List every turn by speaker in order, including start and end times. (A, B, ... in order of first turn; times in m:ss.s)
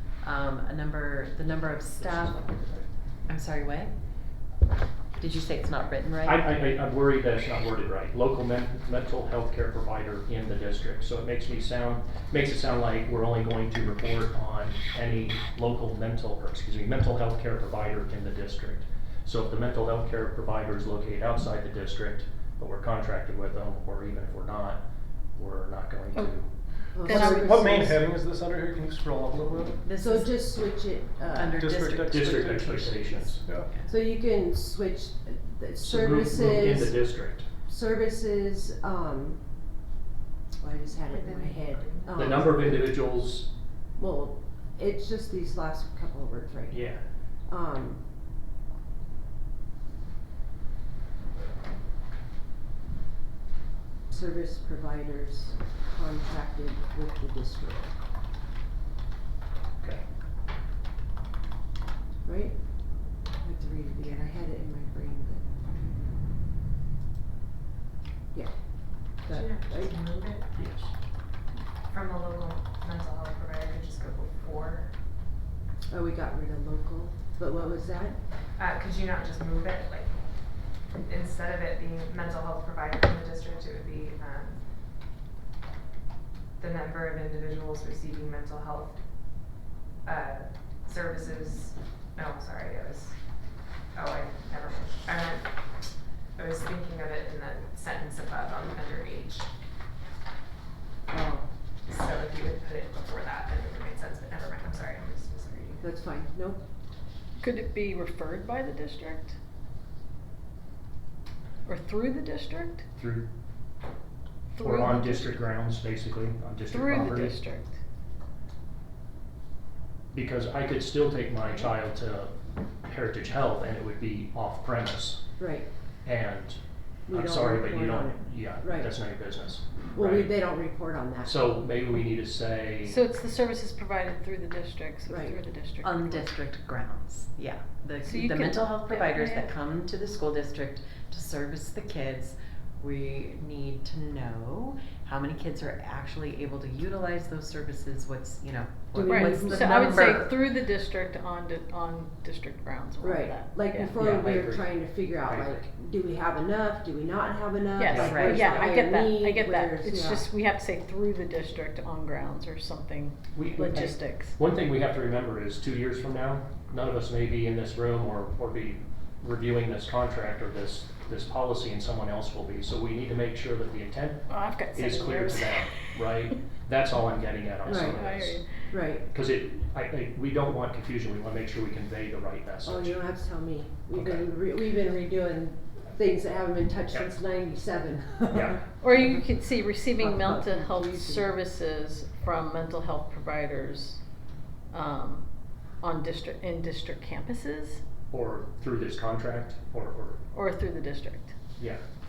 0:00.2-0:02.4 A
0:02.0-0:02.9 B
0:03.3-0:03.9 A
0:05.2-0:06.5 A
0:06.2-0:24.8 B
0:25.4-0:26.5 B
0:26.9-0:27.6 C
0:26.9-0:28.0 D
0:27.0-0:29.8 E
0:29.8-0:30.4 A
0:30.0-0:31.7 D
0:31.3-0:33.9 A
0:31.5-0:32.7 E
0:32.1-0:33.6 B
0:33.4-0:33.7 E
0:33.9-0:37.2 D
0:35.8-0:37.5 B
0:37.7-0:39.4 D
0:40.6-0:43.0 D
0:41.0-0:42.3 F
0:42.1-0:43.5 B
0:44.0-0:46.9 D
0:46.7-0:47.0 B
0:47.5-0:48.0 D
0:54.1-0:57.9 D
1:02.2-1:02.6 D
1:03.4-1:05.4 D
1:09.1-1:09.9 D
1:09.3-1:10.5 F
1:10.5-1:10.9 B
1:11.9-1:14.9 F
1:15.9-1:18.2 D
1:18.6-1:20.2 F
1:21.0-1:24.6 F
1:26.6-1:29.0 F
1:30.0-1:33.2 F
1:33.9-1:35.5 F
1:36.4-1:39.5 F
1:41.1-1:41.5 D
1:41.9-1:45.8 F
1:45.8-1:46.6 D
1:47.4-1:49.3 C
1:51.6-1:52.8 C
1:53.0-1:53.3 B
1:54.5-1:55.4 C
1:54.6-1:57.4 B
1:56.7-1:57.8 C
2:00.1-2:02.3 B
2:02.8-2:05.2 B
2:05.4-2:05.7 D
2:06.0-2:06.6 B
2:07.1-2:09.0 D
2:07.1-2:10.4 B
2:09.9-2:11.4 D
2:11.2-2:13.0 B
2:12.8-2:16.3 C
2:15.1-2:15.4 D
2:15.8-2:30.3 A
2:18.0-2:19.5 C
2:28.9-2:30.3 D
2:29.1-2:34.1 C
2:33.0-2:40.3 D
2:33.9-2:35.7 B
2:37.8-2:44.4 C
2:37.9-2:38.3 B
2:37.9-2:38.7 A
2:43.3-2:58.4 B
2:54.3-2:56.1 C
2:57.6-2:58.0 D
2:57.6-2:58.7 C
2:58.7-2:59.0 D
2:59.1-3:03.0 B
3:02.6-3:08.6 D
3:03.9-3:04.3 B
3:08.3-3:08.6 B
3:08.8-3:14.0 C
3:10.0-3:11.3 D
3:14.7-3:15.2 C
3:15.8-3:17.8 C
3:18.1-3:20.2 B
3:20.3-3:21.3 C